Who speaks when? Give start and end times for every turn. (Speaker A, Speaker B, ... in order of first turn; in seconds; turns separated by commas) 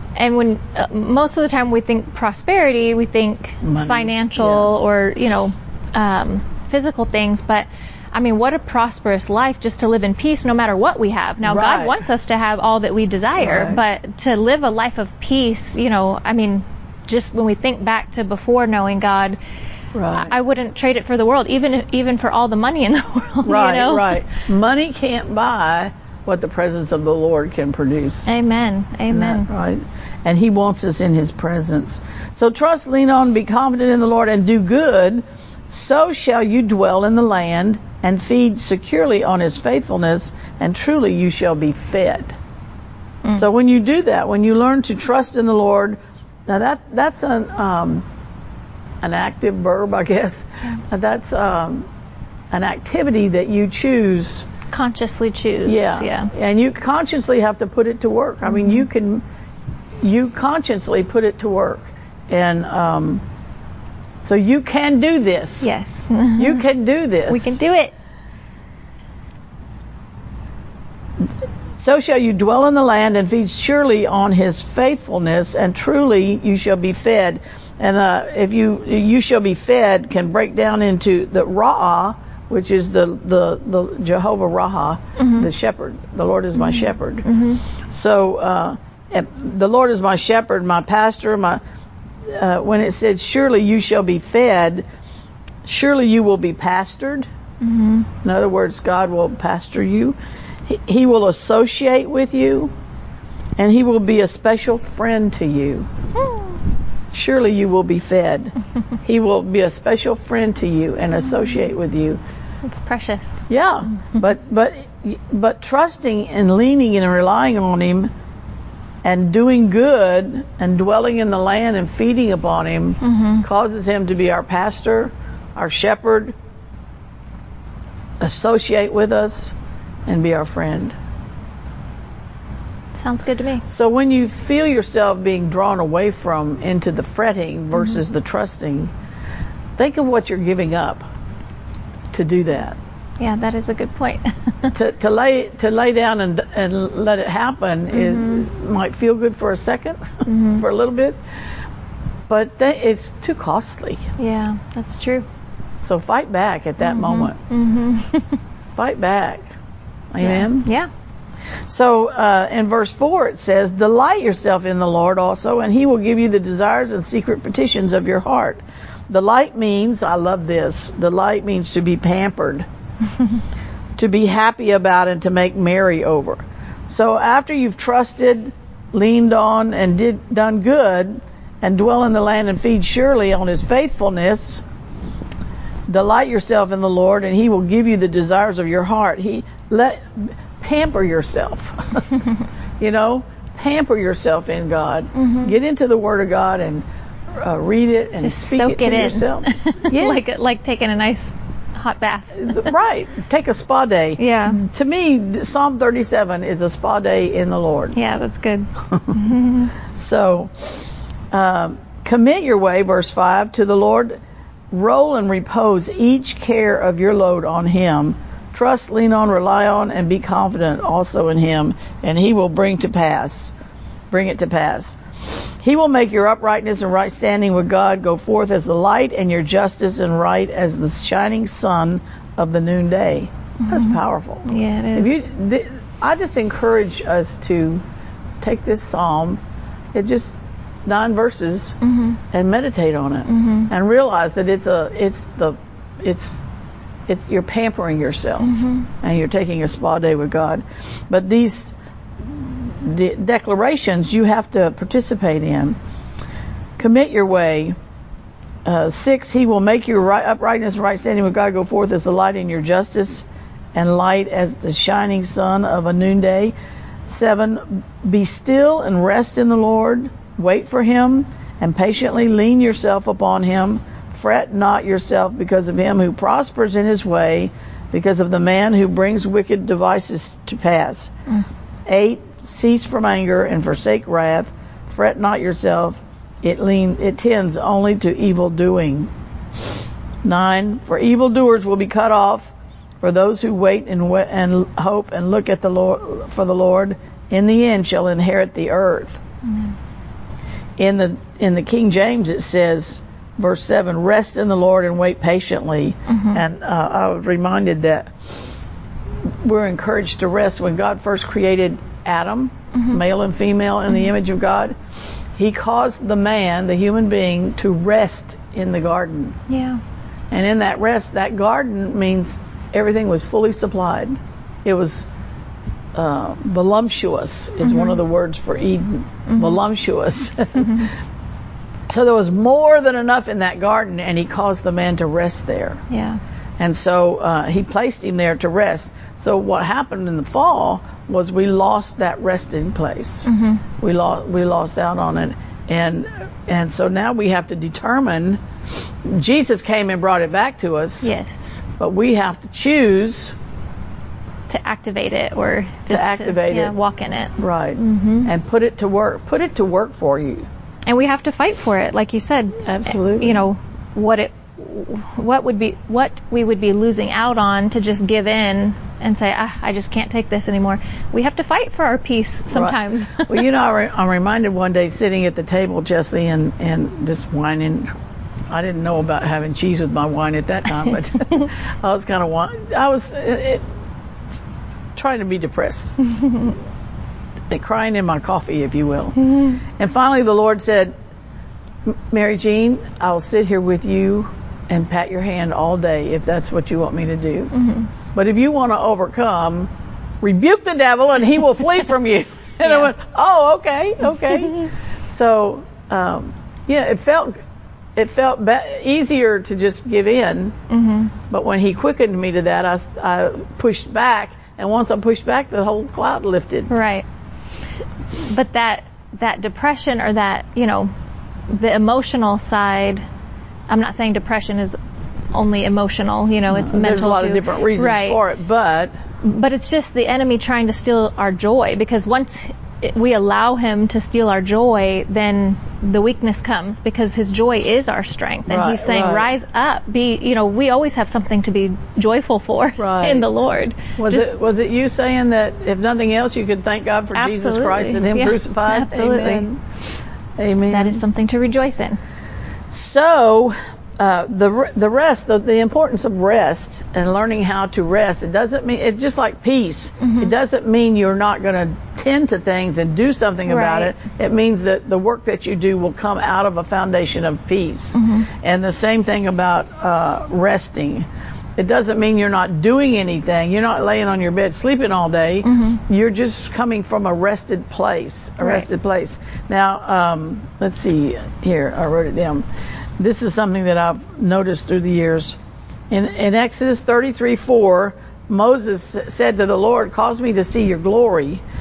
Speaker A: 0.2-19.4, Speaker B: 3.6-4.7, Speaker B: 11.4-12.0, Speaker B: 13.4-13.8, Speaker B: 19.9-20.3, Speaker A: 20.1-24.2, Speaker B: 23.4-28.3, Speaker A: 28.3-29.5, Speaker B: 29.1-42.4, Speaker B: 43.3-48.0, Speaker B: 49.0-51.9, Speaker B: 52.5-54.5, Speaker A: 54.7-56.3, Speaker B: 55.6-59.2, Speaker A: 58.5-58.8, Speaker B: 60.0-63.2, Speaker B: 64.2-65.7, Speaker A: 65.6-66.7, Speaker B: 66.4-67.6, Speaker A: 67.3-67.9, Speaker B: 71.8-87.3, Speaker A: 85.2-85.5, Speaker A: 86.6-87.6, Speaker B: 87.9-91.6, Speaker B: 92.3-94.8, Speaker B: 95.7-97.3, Speaker A: 97.6-98.1, Speaker B: 98.2-102.7, Speaker B: 103.6-105.9, Speaker B: 107.1-112.2, Speaker A: 112.6-113.5, Speaker B: 113.5-118.1, Speaker B: 119.0-126.3, Speaker A: 123.0-123.5, Speaker B: 128.2-129.6, Speaker B: 130.1-130.9, Speaker A: 132.9-133.6, Speaker B: 133.7-138.9, Speaker B: 139.8-141.1, Speaker B: 142.1-142.8, Speaker A: 143.2-144.8, Speaker B: 144.7-151.2, Speaker A: 147.9-148.4, Speaker A: 150.3-150.6, Speaker B: 152.3-154.1, Speaker A: 154.2-155.3, Speaker B: 155.8-157.4, Speaker A: 156.8-158.4, Speaker B: 158.8-159.5, Speaker B: 160.1-160.7, Speaker A: 160.2-160.9, Speaker B: 161.7-172.7, Speaker B: 174.0-184.6, Speaker B: 185.9-192.1, Speaker B: 192.8-196.8, Speaker A: 195.2-195.5, Speaker B: 197.4-200.4, Speaker A: 198.2-202.7, Speaker B: 202.4-208.0, Speaker A: 204.2-204.6, Speaker A: 207.9-209.7, Speaker B: 208.9-209.2, Speaker B: 209.9-214.2, Speaker B: 214.7-223.5, Speaker B: 224.1-237.8, Speaker A: 233.6-235.2, Speaker B: 238.4-239.4, Speaker B: 239.9-241.8, Speaker A: 241.8-242.2, Speaker B: 242.3-246.4, Speaker A: 243.3-243.7, Speaker B: 247.1-255.8, Speaker A: 248.4-248.9, Speaker B: 256.8-257.8, Speaker B: 258.6-266.5, Speaker B: 267.1-281.1, Speaker B: 281.9-289.1, Speaker B: 290.2-299.2, Speaker B: 300.8-308.5, Speaker A: 306.1-306.4, Speaker B: 309.3-314.7, Speaker A: 312.7-313.0, Speaker B: 315.4-319.4, Speaker A: 319.5-319.8, Speaker B: 320.3-325.1, Speaker B: 325.9-330.9, Speaker A: 327.6-328.0, Speaker A: 329.3-329.6, Speaker B: 331.9-335.8, Speaker A: 335.9-336.2, Speaker B: 336.6-343.3, Speaker A: 343.3-343.6, Speaker B: 343.8-351.1, Speaker A: 351.0-351.6, Speaker B: 351.8-353.4, Speaker A: 354.5-358.3, Speaker B: 355.9-356.7, Speaker B: 357.4-360.5, Speaker A: 360.9-373.4, Speaker B: 362.6-363.4, Speaker B: 372.5-377.9, Speaker B: 378.5-383.6, Speaker B: 384.9-385.9, Speaker B: 387.5-389.2, Speaker B: 389.8-390.9, Speaker B: 391.9-397.5, Speaker A: 397.5-397.9, Speaker B: 398.1-399.7, Speaker B: 400.2-407.4, Speaker B: 408.0-410.6, Speaker A: 410.7-411.1, Speaker B: 411.3-416.7, Speaker A: 416.7-417.0, Speaker A: 418.2-420.9, Speaker A: 421.5-423.0, Speaker A: 423.7-424.8, Speaker A: 425.3-428.2, Speaker B: 426.5-428.9, Speaker A: 429.2-444.3, Speaker B: 438.5-439.3, Speaker B: 442.8-443.3, Speaker B: 444.0-449.6, Speaker A: 447.1-449.5, Speaker B: 450.4-451.0, Speaker A: 450.7-452.0, Speaker B: 452.7-471.1, Speaker A: 460.0-460.3, Speaker A: 463.5-463.9, Speaker A: 468.0-468.3, Speaker B: 471.6-482.4, Speaker A: 475.4-475.8, Speaker A: 478.4-478.7, Speaker B: 483.0-485.4, Speaker B: 485.9-491.4